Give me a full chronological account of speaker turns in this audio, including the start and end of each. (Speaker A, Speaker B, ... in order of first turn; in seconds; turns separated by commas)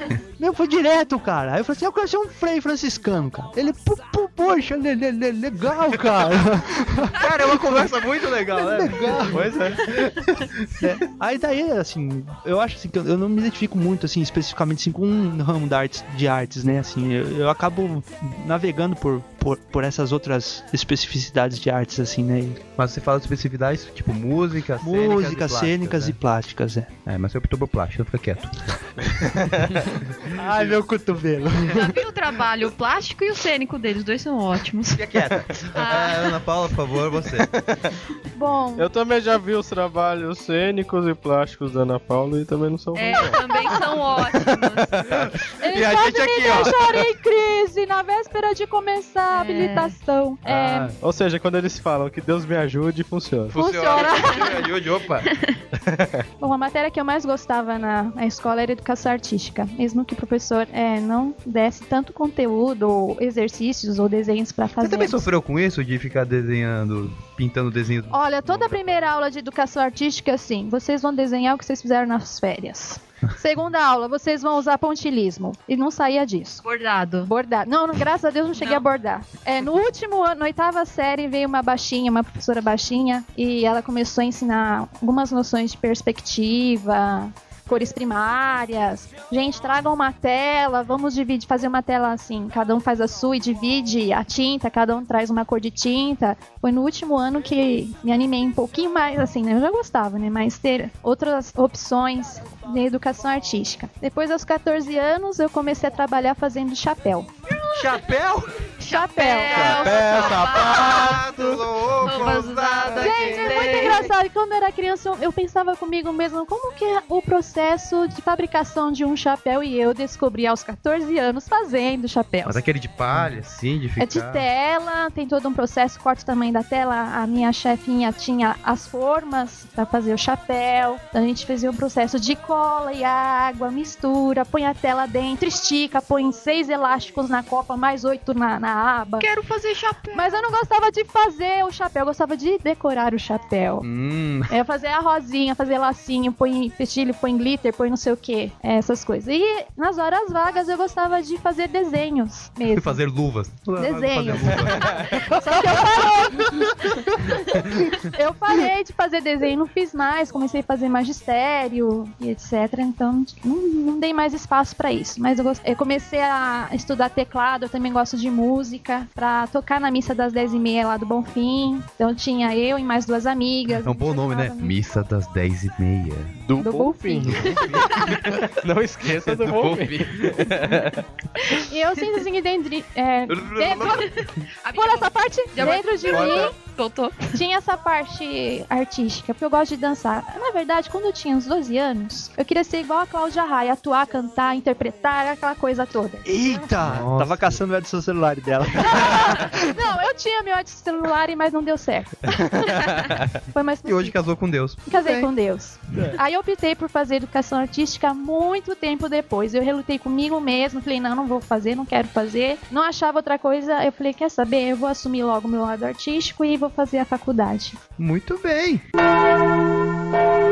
Speaker A: 0.4-7.9, Speaker B: 7.2-9.5, Speaker A: 8.4-9.8, Speaker C: 9.3-9.9, Speaker A: 10.8-22.6, Speaker B: 22.8-26.2, Speaker A: 24.8-26.9, Speaker B: 27.1-28.5, Speaker A: 30.3-32.0, Speaker C: 30.4-30.8, Speaker D: 31.7-35.2, Speaker B: 35.0-37.5, Speaker D: 35.7-36.4, Speaker C: 37.4-37.9, Speaker E: 38.4-38.9, Speaker C: 38.8-43.8, Speaker D: 42.9-45.0, Speaker C: 44.4-45.2, Speaker B: 45.1-47.0, Speaker E: 45.6-50.9, Speaker D: 49.3-50.0, Speaker B: 50.5-50.9, Speaker C: 51.0-53.6, Speaker B: 53.5-55.3, Speaker E: 53.5-54.6, Speaker D: 55.2-55.6, Speaker C: 55.8-56.2, Speaker E: 56.4-65.2, Speaker B: 64.8-69.0, Speaker E: 68.1-76.6, Speaker D: 76.6-77.3, Speaker E: 77.2-107.3, Speaker D: 78.6-78.9, Speaker B: 107.7-108.7, Speaker D: 108.8-111.1, Speaker E: 108.8-110.0, Speaker B: 109.5-113.9, Speaker C: 109.6-111.7, Speaker D: 112.0-114.1, Speaker E: 113.0-122.6, Speaker B: 122.5-124.5, Speaker E: 124.0-139.3, Speaker D: 139.2-140.5, Speaker E: 140.1-143.9, Speaker B: 143.8-144.5, Speaker E: 144.5-153.0, Speaker B: 152.7-155.1, Speaker E: 153.8-174.8, Speaker B: 173.8-176.4, Speaker C: 176.4-181.0, Speaker E: 176.6-178.3, Speaker B: 177.3-178.1, Speaker B: 179.2-180.5, Speaker E: 181.6-184.1, Speaker B: 183.3-184.1, Speaker D: 183.9-187.4, Speaker E: 184.7-186.5, Speaker B: 186.1-186.5, Speaker E: 187.3-196.5, Speaker A: 196.2-199.6, Speaker B: 196.8-197.6, Speaker E: 198.8-204.2, Speaker B: 203.8-205.3, Speaker E: 204.9-217.8, Speaker B: 218.0-218.8